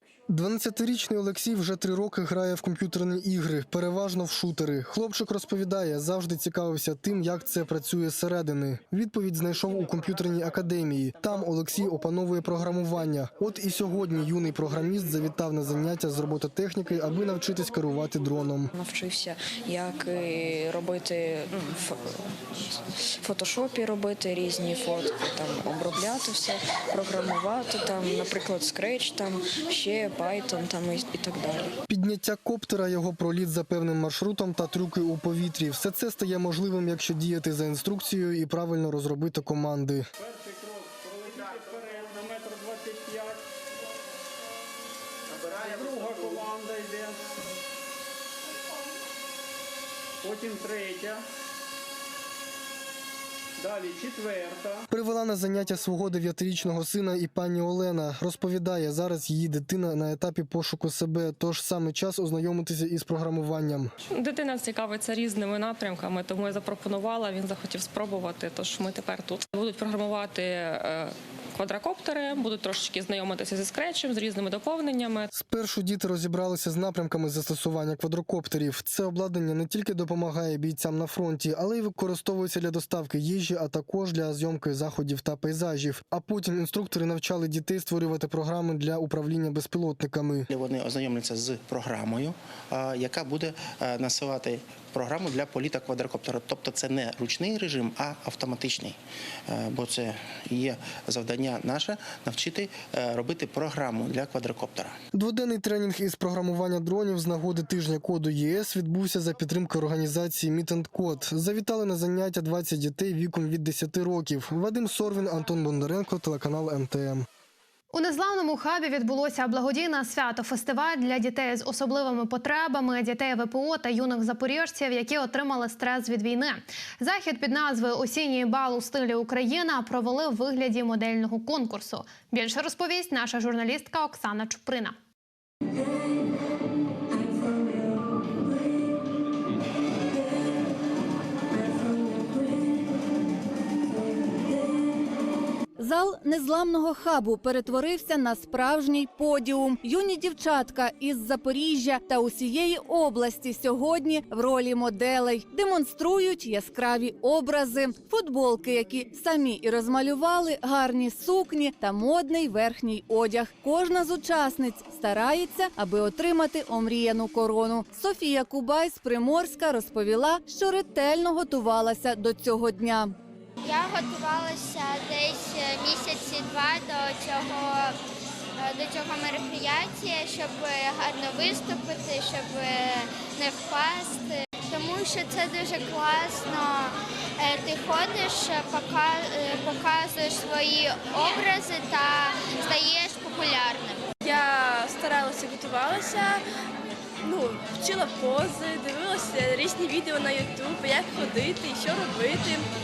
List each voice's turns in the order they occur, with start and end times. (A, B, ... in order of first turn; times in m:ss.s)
0:00.3-0:18.7 A
0:18.7-0:22.3 B
0:23.2-0:31.8 B
0:31.9-0:40.1 A
0:40.2-0:43.4 C
0:45.3-0:47.2 C
0:50.2-0:51.2 C
0:53.6-0:54.8 C
0:54.9-1:03.9 A
1:04.1-1:15.3 D
1:15.3-1:30.5 A
1:30.5-1:45.0 E
1:45.1-1:57.3 A
1:57.9-2:15.0 F
2:25.8-2:53.2 G
2:53.6-2:58.0 H
2:58.6-3:14.0 H
3:14.2-3:16.4 I
3:17.2-3:22.7 I